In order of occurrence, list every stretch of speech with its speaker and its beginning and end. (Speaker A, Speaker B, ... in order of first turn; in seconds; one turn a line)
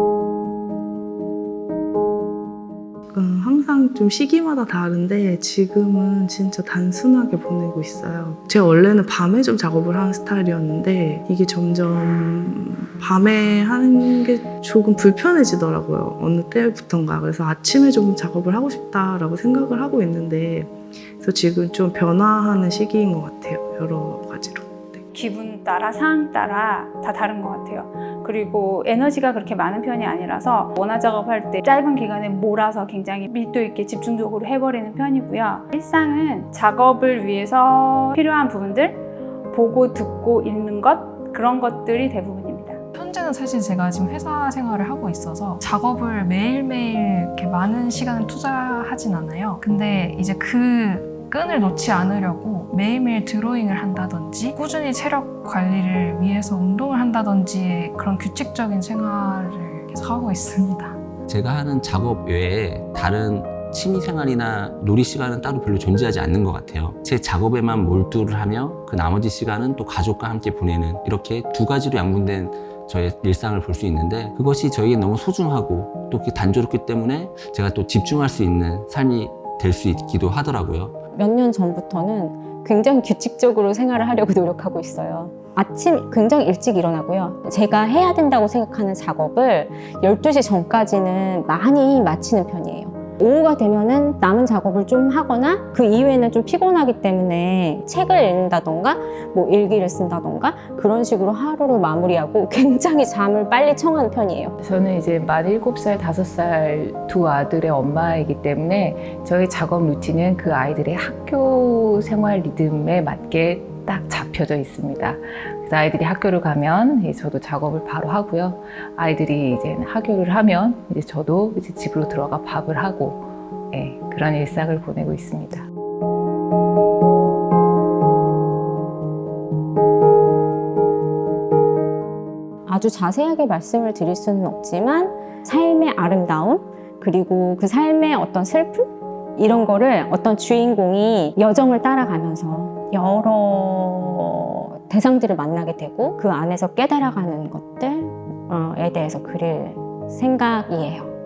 Speaker A: 3.1-25.0
Speaker B: 25.1-42.8
Speaker C: 42.9-61.0
Speaker D: 61.3-81.0
Speaker E: 81.1-104.6
Speaker F: 104.6-125.7
Speaker E: 132.7-151.1